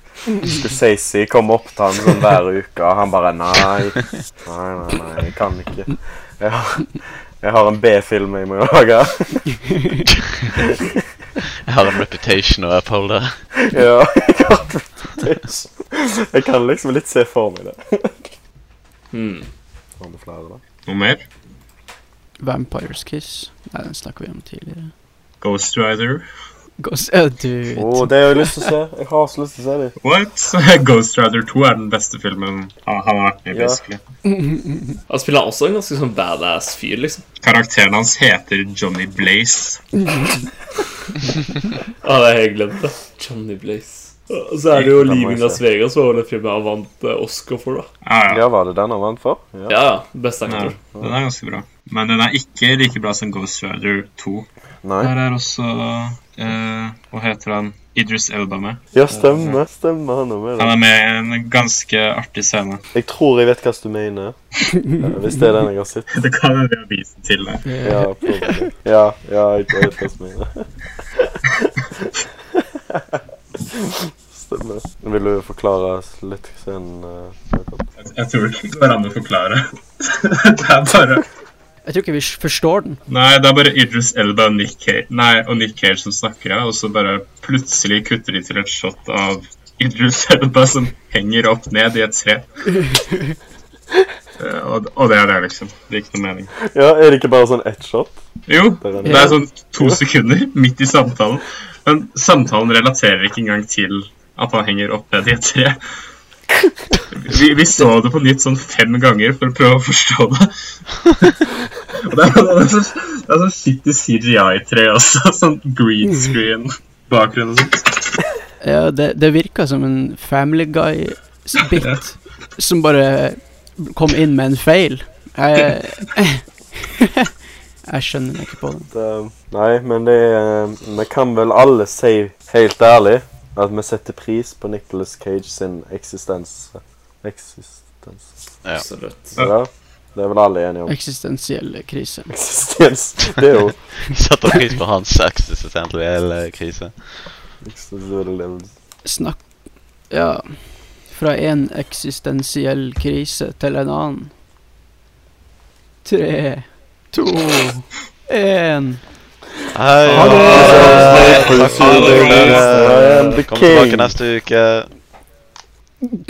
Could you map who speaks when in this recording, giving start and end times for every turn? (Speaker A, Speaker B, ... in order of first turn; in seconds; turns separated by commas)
Speaker A: 0.4-9.5, Speaker A: 10.5-11.0, Speaker B: 11.7-13.4, Speaker A: 13.6-18.3, Speaker C: 19.1-19.5, Speaker A: 20.0-20.6, Speaker D: 20.9-21.2, Speaker E: 22.4-24.9, Speaker D: 25.4-26.2, Speaker E: 26.8-28.7, Speaker A: 27.8-29.9, Speaker D: 30.0-34.0, Speaker A: 33.5-33.8, Speaker E: 34.3-34.8, Speaker C: 35.1-37.2, Speaker D: 37.4-39.8, Speaker C: 42.0-47.9, Speaker A: 44.8-45.6, Speaker D: 48.0-48.4, Speaker A: 48.3-49.8, Speaker C: 49.7-50.8, Speaker D: 50.5-54.5, Speaker A: 50.6-51.1, Speaker A: 54.8-55.1, Speaker D: 55.0-59.6, Speaker A: 58.9-60.8, Speaker D: 60.6-62.8, Speaker A: 63.0-66.1, Speaker D: 66.1-67.8, Speaker E: 67.7-68.6, Speaker A: 67.8-77.9, Speaker D: 78.0-81.3, Speaker E: 81.9-83.0, Speaker D: 83.1-92.4, Speaker D: 94.4-96.5, Speaker A: 96.6-98.2, Speaker D: 98.5-105.8, Speaker A: 98.8-100.0, Speaker E: 99.0-99.4, Speaker D: 107.1-110.5, Speaker D: 111.1-118.2, Speaker E: 118.6-127.3, Speaker D: 121.8-122.0, Speaker E: 127.9-128.9, Speaker A: 128.9-138.3, Speaker C: 138.8-139.3, Speaker A: 139.4-140.9, Speaker E: 140.9-142.3, Speaker A: 142.3-143.8, Speaker B: 144.1-147.4, Speaker A: 147.6-148.7, Speaker E: 149.0-149.4, Speaker E: 150.1-150.5, Speaker E: 151.1-154.3, Speaker E: 156.0-159.1, Speaker B: 159.7-164.9, Speaker D: 160.1-163.4, Speaker E: 160.1-161.1, Speaker C: 160.4-163.4, Speaker A: 160.4-164.2